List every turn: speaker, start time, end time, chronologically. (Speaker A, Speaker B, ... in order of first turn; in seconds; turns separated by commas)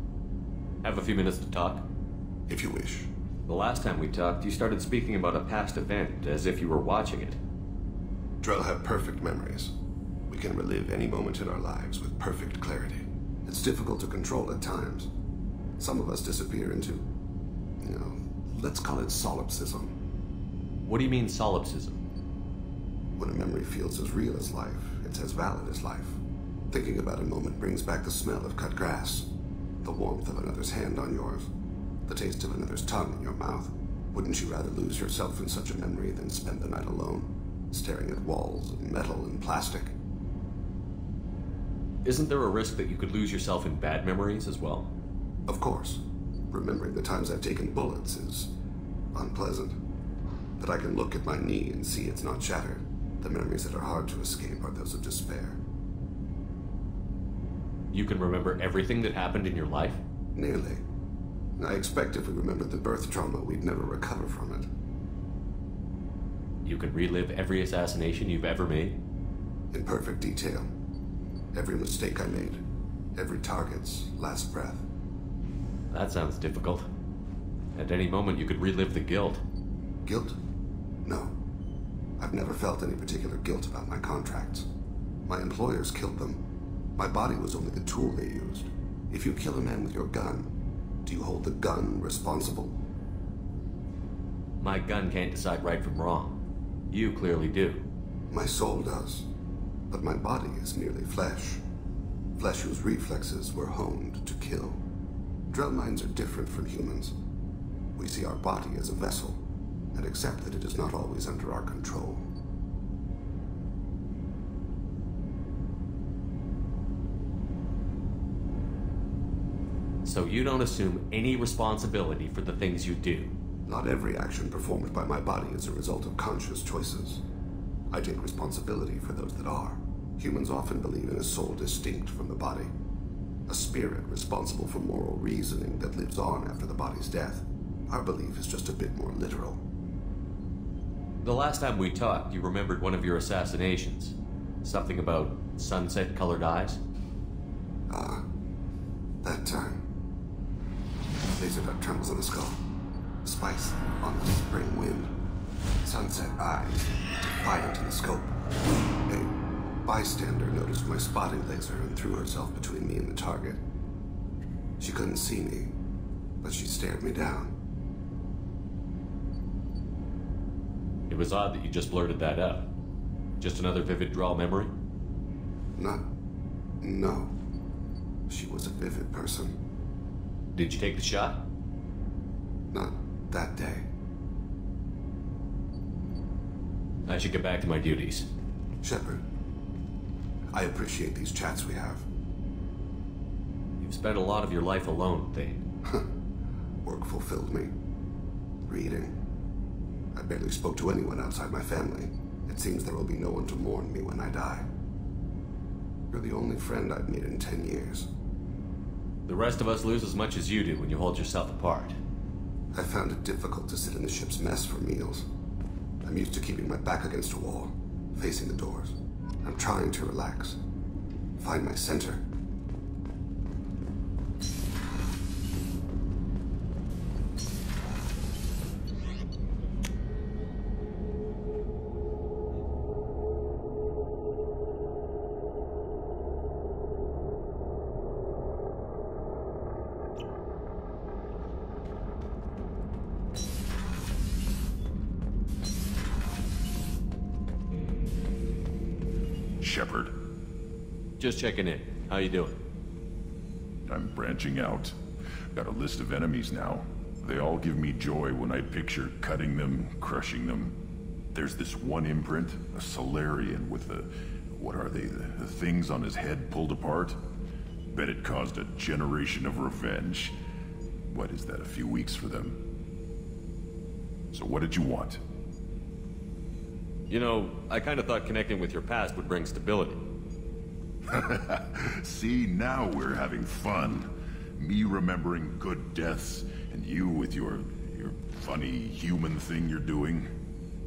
Speaker A: 0.8-1.8, Speaker B: 2.5-3.1, Speaker A: 3.5-7.4, Speaker B: 8.4-9.7, Speaker B: 10.3-15.1, Speaker B: 15.8-17.1, Speaker B: 17.8-19.9, Speaker A: 20.9-22.0, Speaker B: 23.2-29.3, Speaker B: 29.8-31.5, Speaker B: 32.0-39.9, Speaker A: 42.0-44.9, Speaker B: 45.5-48.5, Speaker B: 49.1-49.8, Speaker B: 50.6-55.6, Speaker A: 57.9-60.0, Speaker B: 60.4-60.8, Speaker B: 61.6-64.7, Speaker A: 66.6-69.0, Speaker B: 69.7-70.7, Speaker B: 71.5-72.6, Speaker B: 73.2-74.8, Speaker A: 75.9-76.8, Speaker A: 77.8-79.4, Speaker B: 80.0-80.3, Speaker B: 81.0-81.3, Speaker B: 82.2-84.7, Speaker B: 85.2-86.4, Speaker B: 87.0-90.5, Speaker B: 91.0-92.8, Speaker A: 94.6-96.4, Speaker A: 96.9-97.8, Speaker B: 98.3-99.3, Speaker B: 99.9-101.6, Speaker B: 102.3-104.8, Speaker B: 105.5-107.1, Speaker B: 108.0-109.4, Speaker B: 109.9-112.3, Speaker A: 120.0-123.3, Speaker B: 123.7-127.2, Speaker B: 127.9-132.7, Speaker B: 133.5-139.6, Speaker A: 141.2-146.8, Speaker B: 147.9-148.2, Speaker B: 149.2-149.8, Speaker B: 151.3-152.6, Speaker B: 153.2-155.1, Speaker B: 155.8-156.9, Speaker B: 157.4-158.3, Speaker B: 159.1-159.3, Speaker B: 159.8-163.6, Speaker B: 164.8-165.7, Speaker B: 166.4-167.5, Speaker A: 171.1-172.7, Speaker A: 173.4-174.7, Speaker B: 175.8-176.1, Speaker B: 176.8-177.3, Speaker B: 178.3-179.6, Speaker A: 180.5-181.4, Speaker B: 182.7-183.9, Speaker A: 187.1-188.3, Speaker B: 188.8-189.2, Speaker B: 190.5-192.1, Speaker A: 193.8-195.6, Speaker B: 196.8-197.7, Speaker B: 198.7-199.2, Speaker B: 200.1-204.7, Speaker B: 206.1-208.1, Speaker A: 209.2-211.9, Speaker B: 212.7-215.2, Speaker B: 216.0-220.6, Speaker B: 221.4-222.2, Speaker C: 249.6-250.1, Speaker A: 251.2-252.6, Speaker C: 253.9-254.9, Speaker C: 255.5-260.8, Speaker C: 261.3-267.2, Speaker C: 267.9-270.3, Speaker C: 271.1-272.6, Speaker C: 274.3-275.2, Speaker A: 277.1-280.0, Speaker C: 281.1-290.3